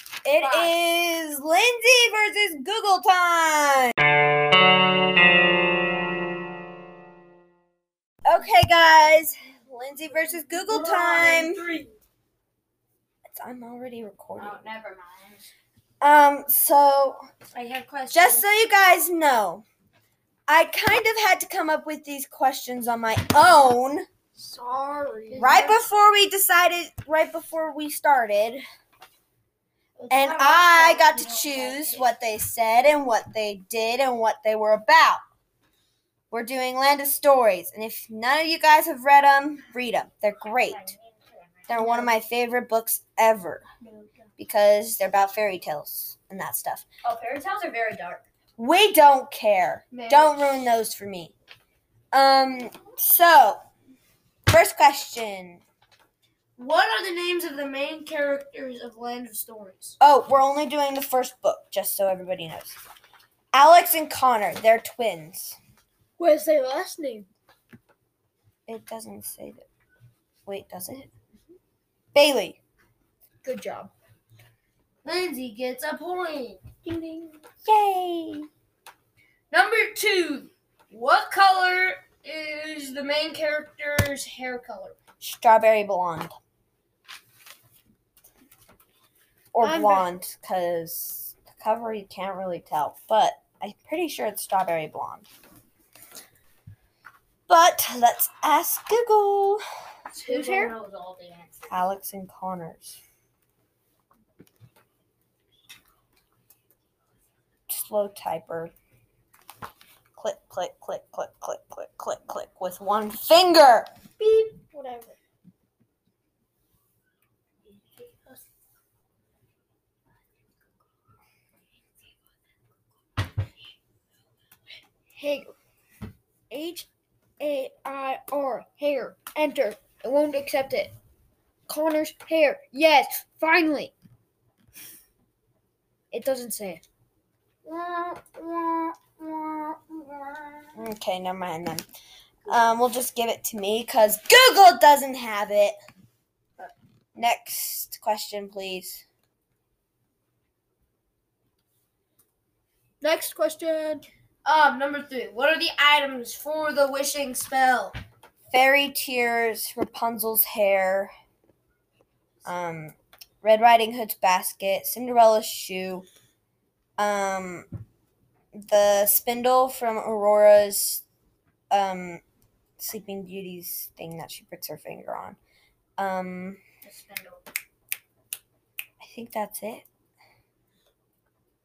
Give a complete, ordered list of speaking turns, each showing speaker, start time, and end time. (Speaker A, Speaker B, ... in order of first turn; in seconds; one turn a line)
Speaker A: 0.2-3.9
Speaker B: 0.4-0.7
Speaker A: 8.2-11.7
Speaker C: 10.7-11.8
Speaker A: 13.3-14.6
Speaker C: 14.4-15.5
Speaker A: 16.0-17.3
Speaker D: 17.5-18.4
Speaker A: 18.1-19.6
Speaker A: 20.5-24.1
Speaker B: 24.4-25.5
Speaker D: 25.3-25.8
Speaker C: 25.4-25.7
Speaker A: 25.4-28.6
Speaker C: 30.0-32.0
Speaker A: 30.1-35.2
Speaker A: 36.3-40.9
Speaker C: 40.4-42.1
Speaker A: 41.7-43.6
Speaker A: 44.4-46.8
Speaker C: 47.0-48.2
Speaker A: 48.6-51.3
Speaker B: 49.9-50.4
Speaker A: 52.1-53.6
Speaker A: 54.5-55.6
Speaker D: 56.6-60.0
Speaker A: 60.0-62.8
Speaker A: 63.5-65.6
Speaker B: 66.2-67.3
Speaker A: 68.7-69.7
Speaker A: 70.5-71.1
Speaker A: 72.1-72.6
Speaker B: 73.4-73.9
Speaker D: 75.0-76.8
Speaker A: 76.9-78.5
Speaker D: 79.5-85.0
Speaker A: 85.2-86.3
Speaker A: 89.5-95.3
Speaker B: 89.6-90.1
Speaker A: 97.5-99.6
Speaker B: 100.1-100.7
Speaker C: 100.2-101.8
Speaker A: 101.7-103.0
Speaker A: 107.7-108.7
Speaker A: 110.2-113.9
Speaker B: 114.2-115.2
Speaker B: 125.1-125.5
Speaker B: 126.5-126.9
Speaker B: 127.4-130.9
Speaker B: 131.7-133.9
Speaker B: 136.1-136.8
Speaker B: 137.7-140.6
Speaker A: 140.7-141.8
Speaker A: 142.4-145.8
Speaker A: 147.1-149.0
Speaker B: 153.0-154.1
Speaker D: 154.4-158.0
Speaker A: 158.5-161.1
Speaker A: 162.4-166.1
Speaker A: 167.0-167.7
Speaker A: 168.5-171.0
Speaker A: 171.7-172.2
Speaker A: 172.8-175.4
Speaker A: 176.0-176.6
Speaker C: 176.8-177.4
Speaker A: 179.0-179.8